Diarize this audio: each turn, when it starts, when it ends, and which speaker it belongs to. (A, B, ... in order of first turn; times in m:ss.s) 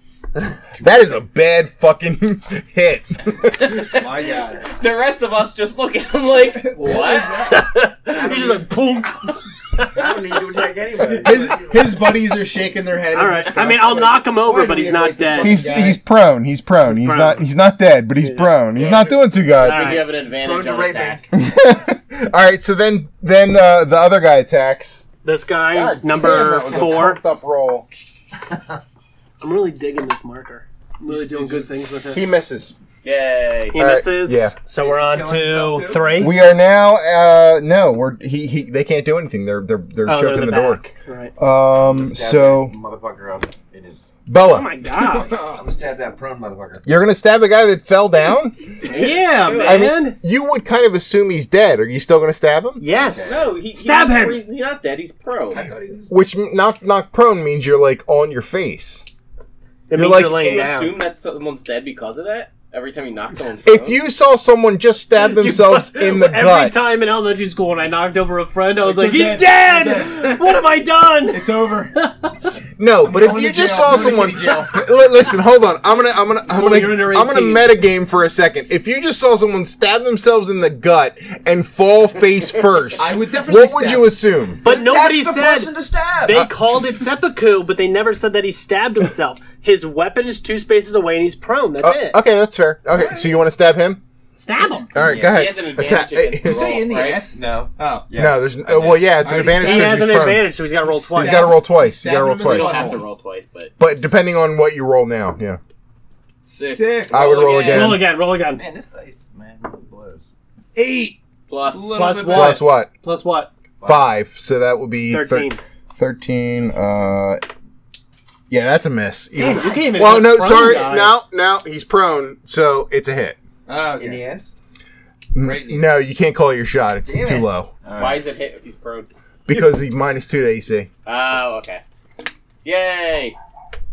0:00.8-0:01.2 A
0:00.8-0:03.8 B
0:03.6-0:07.5 C
0:03.9-0:04.6 D
0:04.1-0:04.6 A
0:06.4-0:07.6 D
0:07.4-0:10.0 E
0:08.1-0:08.6 A
0:09.9-0:12.0 A
0:11.1-0:16.0 D
0:13.1-0:15.6 E
0:15.4-0:20.0 B
0:16.9-0:17.4 E
0:18.2-0:18.6 E
0:18.7-0:21.2 C
0:19.6-0:20.1 E
0:20.3-0:21.3 A
0:21.3-0:25.0 B
0:25.2-0:27.2 E
0:25.7-0:27.9 B
0:29.4-0:32.2 E
0:31.0-0:31.7 D
0:32.1-0:32.7 B
0:33.0-0:33.8 C
0:33.7-0:36.4 E
0:33.7-0:34.5 B
0:34.8-0:36.3 A
0:36.2-0:40.9 B
0:40.0-0:41.3 E
0:41.4-0:42.7 B
0:41.8-0:44.2 A
0:44.3-0:44.7 B
0:44.4-0:45.3 E
0:45.0-0:45.7 D
0:45.3-0:46.8 A
0:46.8-0:48.6 B
0:48.8-0:49.9 C
0:48.8-0:50.2 E
0:49.5-0:52.8 B
0:52.8-0:54.4 E
0:52.9-0:53.5 A
0:53.2-0:55.7 C
0:55.5-0:56.2 A
0:56.1-0:59.1 B
0:59.9-1:01.0 E
0:59.9-1:00.6 B
1:00.3-1:04.0 C
1:03.6-1:06.8 B
1:05.2-1:12.5 E
1:08.9-1:10.4 D
1:11.3-1:11.9 D
1:12.8-1:24.6 B
1:13.0-1:14.8 D
1:16.5-1:17.7 E
1:23.0-1:24.1 D
1:24.6-1:26.5 A
1:24.6-1:32.2 E
1:31.8-1:34.0 B
1:34.4-1:34.9 E
1:34.9-1:36.8 B
1:34.9-1:35.5 A
1:35.1-1:37.3 C
1:36.4-1:38.1 D
1:37.3-1:39.2 A
1:38.2-1:40.5 B
1:39.2-1:43.0 D
1:39.6-1:41.6 E
1:41.2-1:42.9 B
1:42.4-1:43.7 C
1:43.8-1:45.6 B
1:46.4-1:47.4 D
1:46.6-1:48.0 C
1:47.1-1:48.1 B
1:47.7-1:48.6 E
1:48.4-1:50.3 A
1:50.7-1:52.6 D
1:51.5-1:52.1 C
1:51.9-1:53.5 E
1:52.3-1:52.9 B
1:53.8-1:54.1 A
1:53.8-1:57.4 B
1:55.1-1:55.6 E
1:58.5-2:03.4 B
1:59.4-2:01.2 E
2:03.7-2:04.3 D
2:03.9-2:04.5 A
2:05.3-2:07.7 B
2:05.4-2:05.9 D
2:07.0-2:08.3 A
2:07.9-2:09.1 C
2:09.5-2:10.9 B
2:11.0-2:11.8 C
2:12.6-2:13.4 C